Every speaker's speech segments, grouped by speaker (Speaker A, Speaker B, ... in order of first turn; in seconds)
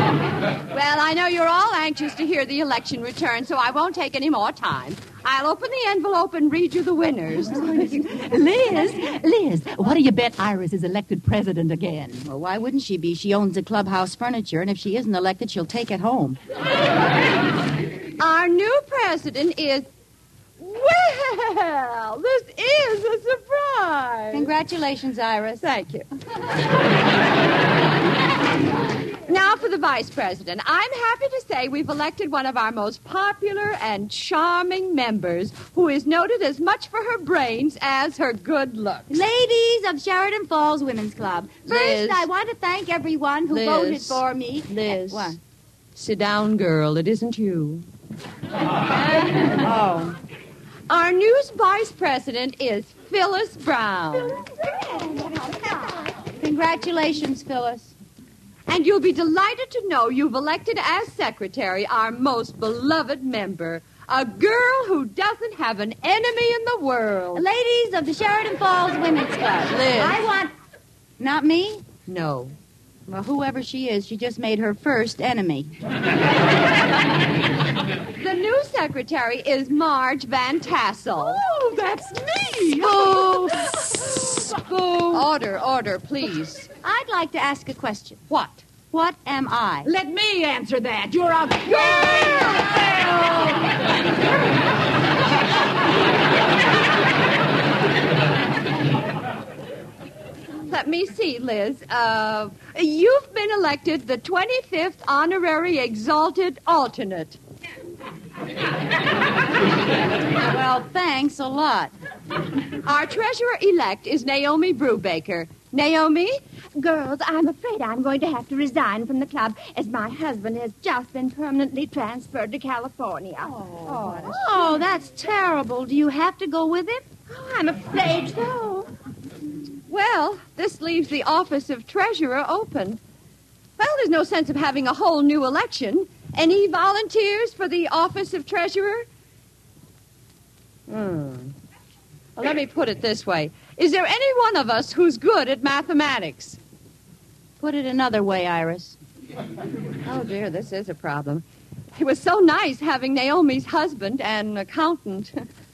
Speaker A: 0.7-7.8, 18.2-19.9, 20.6-24.5, 25.6-26.1, 29.3-39.2, 41.7-42.3, 43.5-45.4, 46.0-47.9, 49.0-49.5, 50.9-54.4, 58.7-67.4, 69.7-70.2, 72.1-72.6, 78.2-81.4, 84.7-86.7, 88.3-88.6, 91.7-93.1, 100.7-107.4, 112.8-116.4, 129.9-133.0, 133.8-139.1, 140.9-141.5, 142.4-146.6, 150.1-151.4, 151.9-155.5
Speaker B: 7.6-12.2, 81.2-85.2, 89.8-93.5
Speaker C: 12.2-16.4, 24.3-25.6, 39.1-45.4, 49.6-50.2, 56.4-57.9, 67.3-70.5, 71.2-71.8, 73.1-75.7, 82.8-83.7, 86.8-88.2, 88.9-89.9, 110.4-111.9, 123.5-127.0, 147.6-149.0
Speaker D: 54.6-56.1, 116.8-124.5, 127.3-128.9